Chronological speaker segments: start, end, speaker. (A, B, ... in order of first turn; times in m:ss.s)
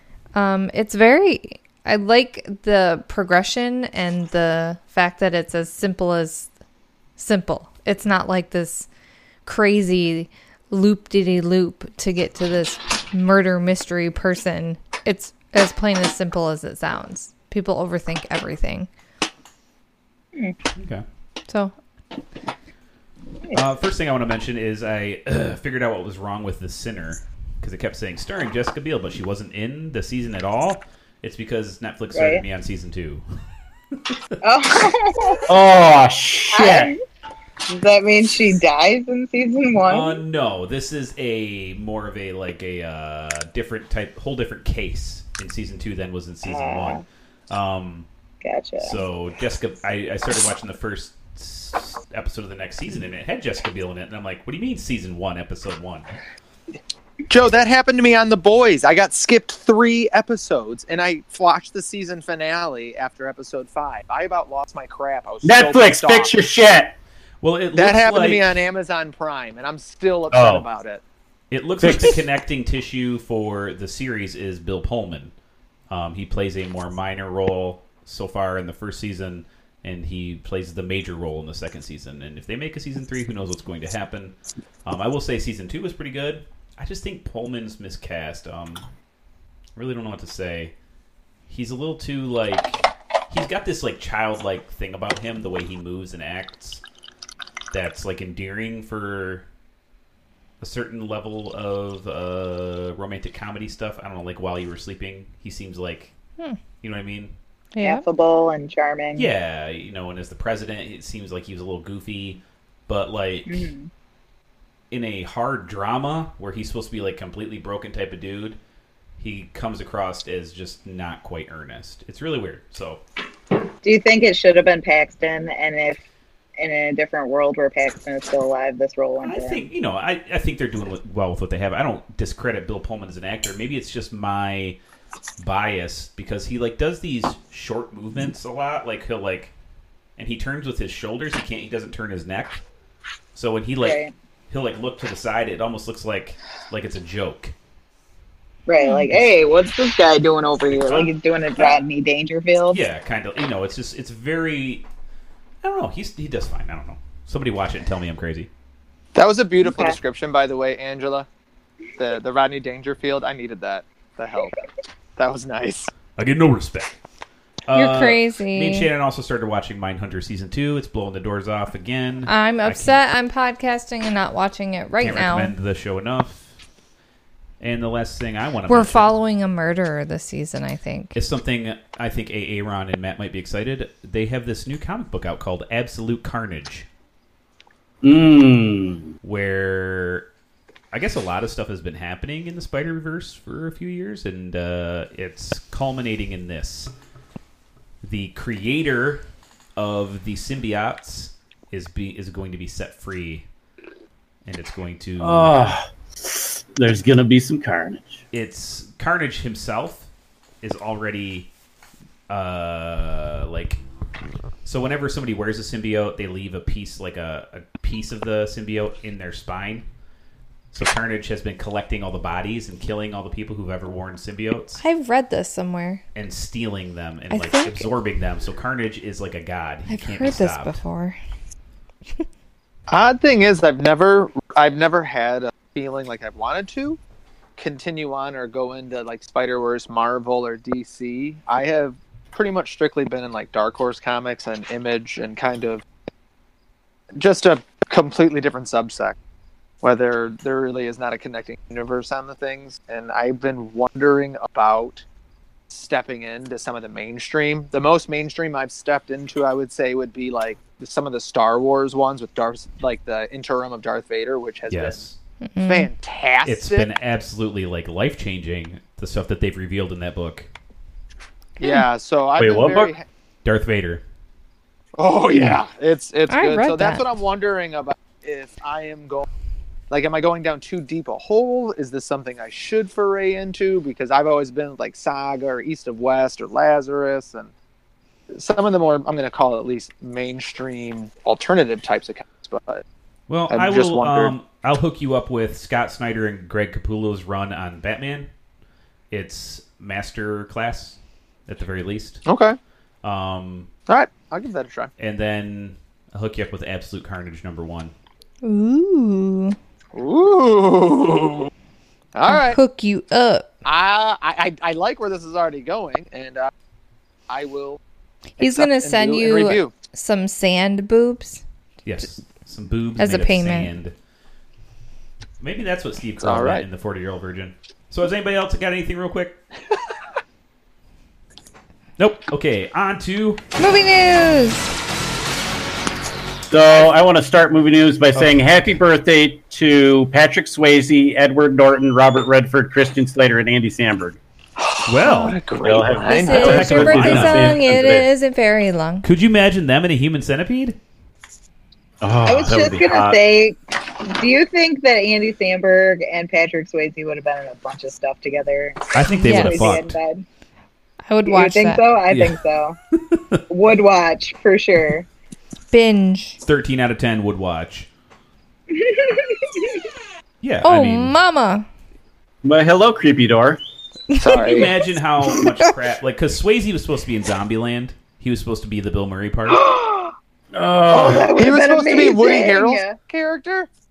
0:00.4-0:06.5 A
0:07.2-0:08.9 A
0:09.4-0:18.9 A
0:20.8-0:21.0 B
0:21.5-0:21.7 A
0:23.5-0:33.2 B
0:32.1-0:32.4 C
0:34.4-0:35.4 C
0:35.5-0:36.9 D
0:36.5-0:37.0 C
0:37.7-0:40.2 C
0:39.9-0:48.1 B
0:46.4-0:47.0 C
0:48.4-0:49.0 C
0:48.8-0:56.1 B
0:57.3-1:06.4 E
1:05.4-1:07.0 D
1:07.4-1:08.6 B
1:07.8-1:11.0 E
1:10.3-1:10.6 D
1:11.5-1:15.3 B
1:11.8-1:12.2 D
1:15.9-1:28.8 B
1:29.8-1:30.7 B
1:31.5-1:36.8 B
1:37.7-1:39.4 B
1:40.6-1:46.1 B
1:46.8-1:47.3 B
1:47.7-1:48.0 A
1:47.8-1:49.3 C
1:49.2-1:53.7 B
1:53.5-1:53.9 C
1:54.9-1:58.6 B
1:59.2-2:03.0 B
2:03.8-2:06.0 C
2:06.6-2:09.6 C
2:09.2-2:14.8 B
2:15.4-2:19.5 B
2:20.2-2:22.6 B
2:23.4-2:27.6 B
2:23.8-2:24.1 C
2:28.7-2:32.8 C
2:28.8-2:29.1 A
2:30.7-2:31.1 B
2:32.7-2:34.9 B
2:35.6-2:38.5 B
2:39.2-2:41.3 E
2:39.6-2:40.0 C
2:42.0-2:44.6 E
2:45.2-2:45.9 E
2:46.2-2:47.0 B
2:47.7-2:53.0 B
2:47.7-2:48.9 A
2:52.3-2:55.5 A
2:55.0-2:56.6 B
2:57.6-2:59.1 B
2:58.7-3:01.2 A
3:01.2-3:06.9 B
3:08.0-3:09.1 D
3:09.2-3:10.3 B
3:10.9-3:16.9 B
3:18.0-3:19.2 B
3:19.8-3:23.5 B
3:24.4-3:25.7 B
3:25.2-3:28.2 D
3:28.3-3:30.1 B
3:30.6-3:31.5 B
3:32.3-3:33.8 B
3:34.6-3:39.8 B
3:40.7-3:44.8 B
3:44.8-3:46.0 A
3:46.2-3:50.8 B
3:47.3-3:47.9 A
3:49.9-3:51.2 A
3:52.9-3:57.0 E
3:57.6-4:05.8 E
4:07.2-4:09.2 E
4:09.8-4:15.0 E
4:15.7-4:25.0 E
4:24.7-4:25.2 B
4:25.4-4:25.9 A
4:25.6-4:26.9 E
4:26.4-4:30.5 B
4:31.6-4:33.0 E
4:32.4-4:32.9 D
4:33.4-4:34.0 B
4:35.0-4:39.3 E
4:36.3-4:37.0 A
4:39.9-4:47.5 E
4:48.3-4:52.8 E
4:53.3-4:58.3 B
4:53.5-4:54.3 E
4:59.1-5:02.2 B
5:02.2-5:02.6 E
5:03.0-5:03.7 B
5:03.9-5:04.9 E
5:05.0-5:07.9 B
5:08.4-5:09.6 A
5:09.9-5:11.5 E
5:12.1-5:12.6 E
5:12.3-5:13.5 A
5:13.6-5:16.5 E
5:17.3-5:17.8 E
5:18.4-5:21.4 A
5:18.4-5:19.7 E
5:21.8-5:23.9 B
5:23.0-5:23.7 A
5:25.4-5:29.4 B
5:26.2-5:26.6 E
5:32.0-5:33.4 B
5:33.6-5:34.7 A
5:36.5-5:44.2 D
5:38.2-5:38.5 B
5:44.6-5:47.2 E
5:44.9-5:45.4 B
5:45.6-5:48.1 D
5:46.1-5:49.1 A
5:46.3-5:47.6 B
5:49.0-5:50.8 B
5:52.0-5:53.2 D
5:52.2-6:00.2 C
5:58.9-6:00.0 B
5:59.1-5:59.8 A
6:01.1-6:01.8 A
6:01.3-6:02.8 C
6:02.1-6:02.4 B
6:03.0-6:03.4 B
6:03.5-6:05.1 C
6:05.7-6:06.4 A
6:06.4-6:07.9 B
6:08.7-6:09.8 C
6:10.4-6:11.2 B
6:10.6-6:11.7 A
6:12.4-6:13.6 D
6:14.1-6:14.6 A
6:14.2-6:14.7 E
6:14.2-6:19.6 B
6:15.4-6:15.7 A
6:19.6-6:20.1 C
6:20.5-6:21.3 D
6:20.9-6:23.0 C
6:21.3-6:23.7 E